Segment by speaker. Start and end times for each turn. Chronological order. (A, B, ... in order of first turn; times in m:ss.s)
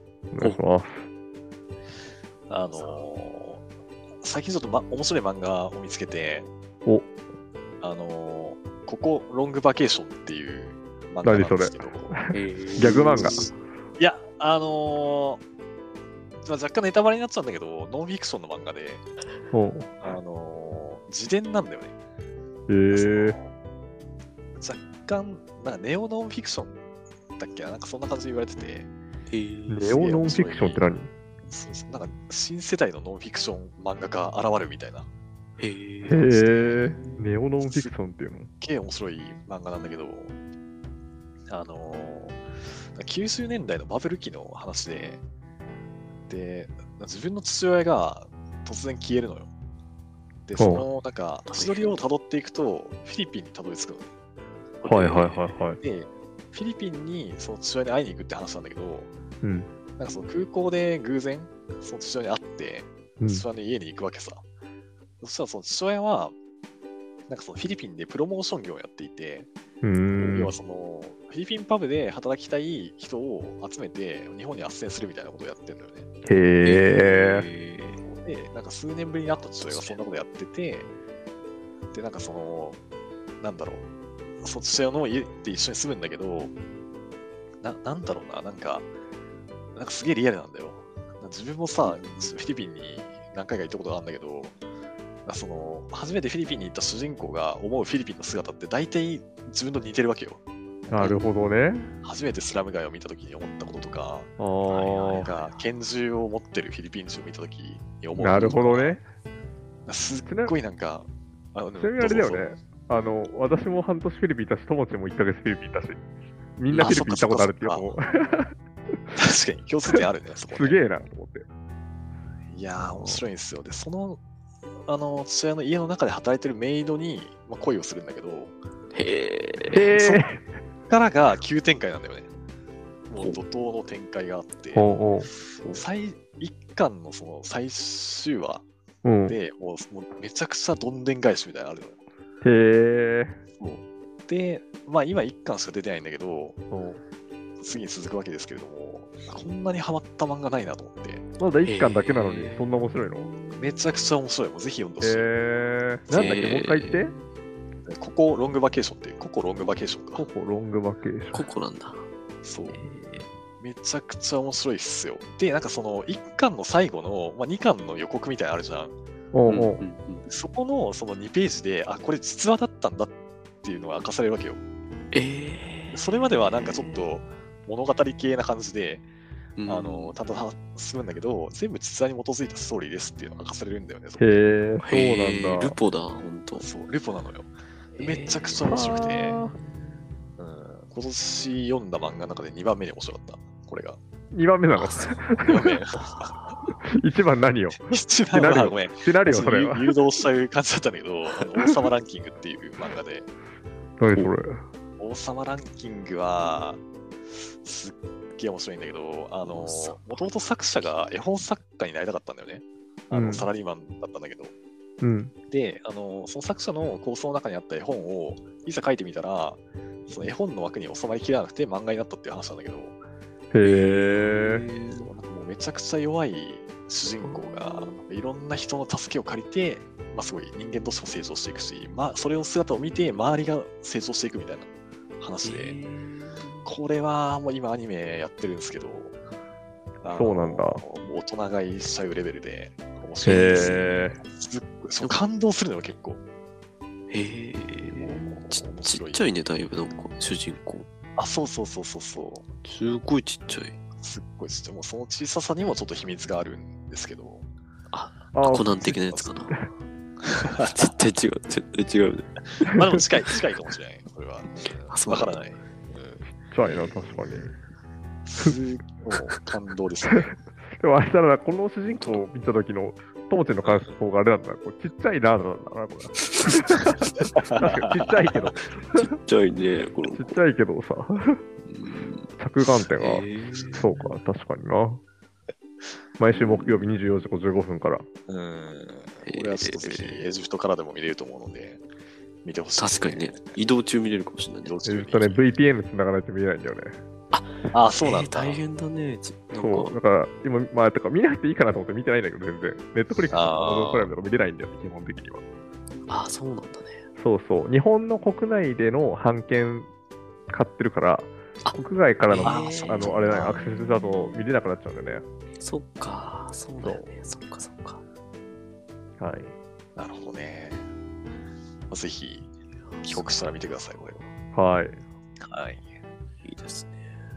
0:00.3-0:01.1 A
0:02.5-0:03.6 B
0:04.2-0:06.5 B
0:06.8-0:07.1 A
0:07.8-0:12.2 B
0:11.2-0:13.5 A
0:12.3-0:13.5 C
0:12.8-0:13.4 B
0:14.0-0:15.4 B
0:16.4-0:19.0 B
0:19.5-0:19.9 A
0:20.0-0:22.0 B
0:22.7-0:23.4 A
0:22.9-0:23.5 B
0:24.6-0:26.8 B
0:27.4-0:28.9 B
0:29.3-0:29.8 C
0:29.7-0:31.1 A
0:29.9-0:30.8 B
0:31.5-0:35.1 B
0:35.6-0:36.3 C
0:36.1-0:38.5 A
0:36.2-0:37.1 B
0:37.6-0:37.9 B
0:38.6-0:40.3 B
0:41.5-0:42.4 B
0:42.9-0:45.2 B
0:46.3-0:49.5 B
0:50.5-0:54.1 B
0:50.6-0:50.9 A
0:51.5-0:52.0 C
0:54.8-0:55.4 C
0:54.8-0:55.8 A
0:55.2-0:59.1 B
0:59.4-0:59.7 A
1:00.0-1:04.4 B
1:03.2-1:03.4 A
1:05.2-1:06.4 B
1:07.3-1:09.5 B
1:09.8-1:10.5 A
1:10.2-1:16.1 B
1:16.2-1:17.4 A
1:16.6-1:18.0 C
1:17.0-1:17.3 B
1:18.0-1:20.9 B
1:19.6-1:20.0 C
1:21.9-1:22.8 B
1:23.4-1:23.8 B
1:24.4-1:26.5 B
1:27.6-1:28.9 B
1:29.8-1:34.6 B
1:35.3-1:40.4 B
1:40.9-1:41.9 A
1:40.9-1:41.2 B
1:42.0-1:49.0 B
1:44.4-1:45.4 A
1:48.2-1:49.0 A
1:49.9-1:52.5 B
1:50.3-1:50.6 A
1:51.8-1:56.0 A
1:56.6-1:58.5 A
1:56.7-1:57.9 B
1:59.2-2:00.8 B
2:00.5-2:01.4 A
2:02.5-2:04.2 B
2:04.9-2:08.5 B
2:08.9-2:09.9 C
2:09.7-2:10.5 A
2:09.9-2:10.2 B
2:10.9-2:12.3 B
2:13.1-2:15.0 B
2:14.7-2:15.8 A
2:15.6-2:18.6 B
2:19.0-2:19.4 A
2:19.3-2:22.0 B
2:22.4-2:23.4 A
2:23.6-2:26.6 B
2:26.7-2:27.0 A
2:27.6-2:31.2 B
2:31.4-2:33.3 A
2:31.6-2:33.8 C
2:33.6-2:35.3 B
2:35.0-2:37.1 A
2:36.1-2:37.2 C
2:37.9-2:40.3 B
2:40.2-2:41.5 A
2:41.3-2:42.0 C
2:42.4-2:42.8 B
2:42.7-2:43.3 C
2:43.6-2:49.0 B
2:49.3-2:49.8 A
2:49.5-2:50.2 C
2:50.3-2:54.6 B
2:55.1-2:57.1 C
2:55.9-2:59.0 B
2:59.6-3:00.2 C
2:59.7-3:04.4 B
3:04.2-3:05.8 A
3:04.8-3:06.7 C
3:06.5-3:09.4 B
3:08.0-3:10.0 C
3:08.6-3:09.6 A
3:10.4-3:14.0 B
3:14.3-3:15.8 A
3:14.7-3:15.2 C
3:15.4-3:16.4 B
3:17.0-3:19.9 A
3:17.7-3:23.3 B
3:24.0-3:24.6 A
3:25.0-3:26.8 B
3:27.6-3:34.5 B
3:29.4-3:30.0 C
3:33.1-3:33.5 A
3:35.0-3:35.3 A
3:35.5-3:43.0 B
3:43.5-3:44.6 A
3:43.6-3:45.1 C
3:45.0-3:55.8 B
3:47.2-3:48.0 C
3:55.4-3:56.7 C
3:56.6-3:59.2 B
4:00.0-4:06.2 B
4:00.1-4:00.8 A
4:03.2-4:04.0 C
4:03.3-4:04.2 A
4:07.1-4:10.9 C
4:07.8-4:09.3 B
4:11.2-4:12.5 B
4:12.6-4:13.8 C
4:14.0-4:17.5 B
4:17.9-4:19.6 C
4:18.4-4:19.0 A
4:18.8-4:19.3 B
4:20.3-4:20.8 B
4:20.6-4:22.6 C
4:22.7-4:26.9 B
4:24.9-4:25.4 C
4:26.3-4:27.5 A
4:28.3-4:30.3 B
4:30.7-4:39.1 A
4:31.9-4:32.3 C
4:33.6-4:34.0 B
4:37.2-4:38.4 B
4:38.9-4:40.4 C
4:40.1-4:41.4 A
4:41.7-4:42.3 C
4:42.4-4:45.0 A
4:42.8-4:44.1 C
4:46.2-4:48.1 A
4:46.3-4:46.8 C
4:48.3-4:51.8 B
4:49.2-4:50.2 C
4:52.4-4:53.6 B
4:52.8-4:54.8 C
4:54.6-4:55.4 B
4:54.8-4:57.0 A
4:57.3-5:00.0 C
4:57.7-4:58.6 B
4:59.5-5:05.4 A
5:03.3-5:04.1 B
5:06.1-5:07.0 C
5:07.2-5:09.9 A
5:10.5-5:15.2 A
5:12.3-5:13.2 C
5:12.4-5:13.7 B
5:15.6-5:18.0 C
5:16.8-5:17.1 A
5:19.2-5:19.5 A
5:20.0-5:20.8 B
5:21.9-5:22.5 B
5:22.9-5:23.4 C
5:23.0-5:24.2 B
5:24.5-5:25.0 A
5:25.4-5:25.9 B
5:26.4-5:27.2 C